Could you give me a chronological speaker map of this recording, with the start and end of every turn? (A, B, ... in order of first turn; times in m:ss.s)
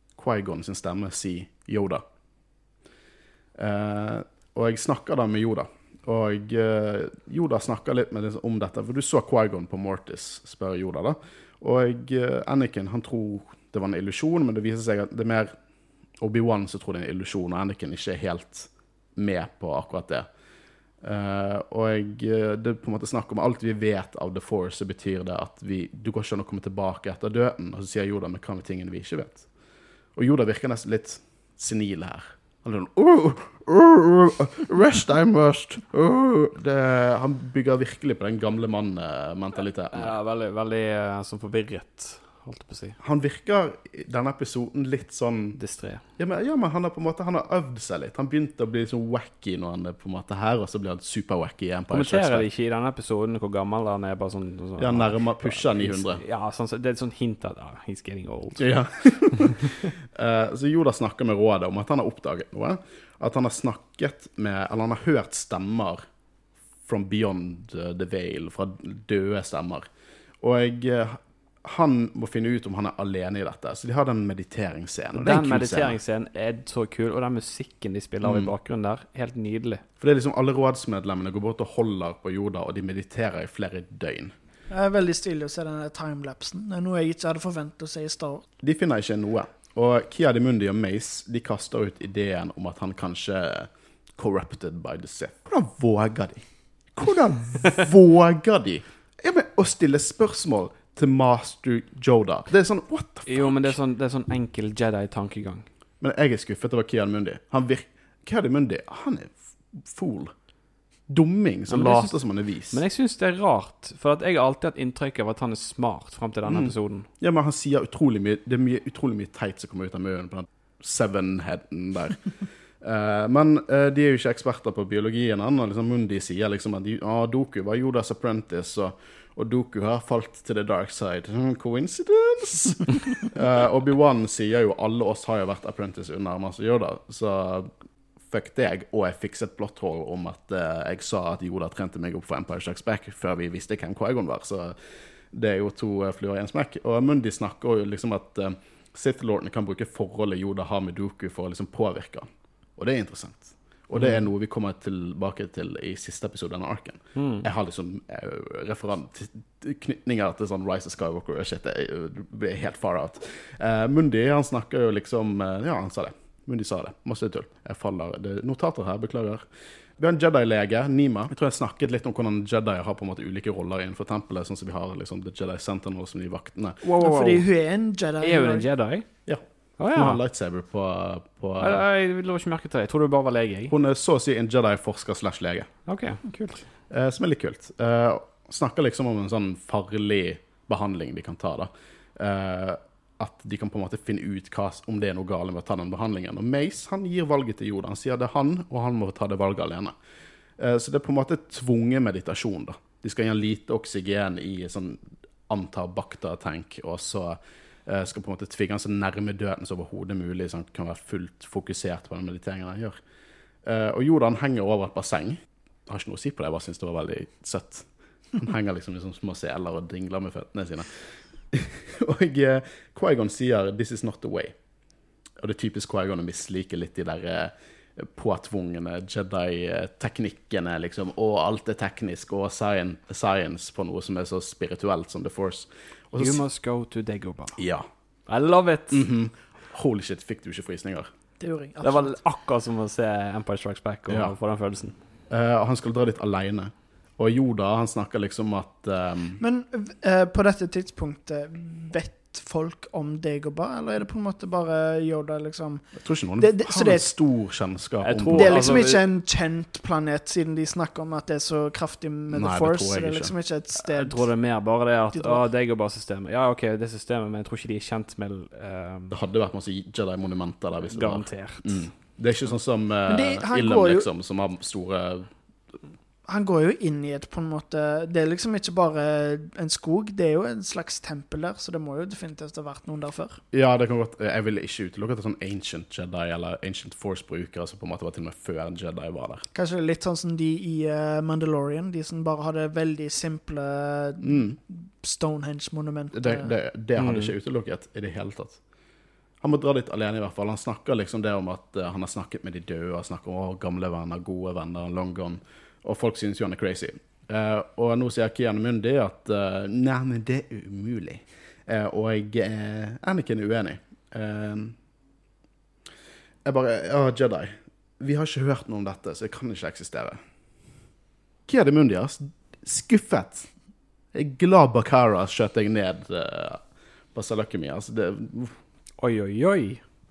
0:00.2-0:02.0 A
0:03.6-0:15.5 A
0:16.2-0:20.3 A
0:21.0-0:29.5 A
0:30.2-0:40.2 A
0:39.9-0:43.0 B
0:43.0-0:45.6 A
0:45.6-0:46.0 B
0:46.2-0:52.5 A
0:51.9-0:58.7 B
0:54.8-0:56.2 A
0:58.6-1:06.0 A
0:59.3-0:59.9 B
1:06.8-1:09.8 A
1:10.4-1:16.0 A
1:15.2-1:19.8 B
1:18.2-1:18.5 A
1:20.0-1:24.3 A
1:24.7-1:28.5 C
1:28.6-1:43.8 A
1:43.3-1:45.7 B
1:46.0-1:50.3 A
1:51.1-1:52.8 A
1:51.7-1:57.1 B
1:56.5-2:02.3 A
2:02.8-2:17.7 A
2:18.3-2:24.8 A
2:25.3-2:32.3 A
2:32.8-2:49.4 A
2:37.2-2:37.5 B
2:50.0-2:56.8 A
2:56.8-2:57.4 B
2:57.0-2:58.7 C
2:58.2-2:59.3 B
2:59.3-3:01.8 A
2:59.8-3:00.2 B
3:01.6-3:03.7 B
3:03.7-3:05.7 A
3:05.9-3:06.6 B
3:06.9-3:19.9 A
3:20.6-3:33.0 A
3:33.6-3:44.6 A
3:45.4-3:56.4 A
3:56.2-3:57.6 B
3:57.6-3:57.9 A
3:58.3-3:59.1 B
3:58.9-4:01.1 A
4:01.4-4:02.2 C
4:01.8-4:04.9 B
4:04.1-4:04.3 A
4:05.3-4:09.4 A
4:09.4-4:15.9 C
4:16.0-4:18.8 A
4:16.4-4:17.1 C
4:18.0-4:19.0 B
4:18.3-4:24.3 C
4:22.3-4:23.3 A
4:23.8-4:29.2 B
4:25.1-4:25.4 C
4:29.1-4:35.3 A
4:30.8-4:31.8 B
4:33.1-4:34.1 C
4:36.3-4:43.4 C
4:43.5-4:49.4 A
4:49.5-4:56.5 C
4:54.2-4:54.6 A
4:56.1-4:58.6 A
4:57.0-4:57.3 B
4:59.4-5:14.8 A
5:16.4-5:20.2 A
5:21.5-5:23.5 A
5:24.1-5:26.6 A
5:27.1-5:28.6 A
5:29.0-5:29.8 B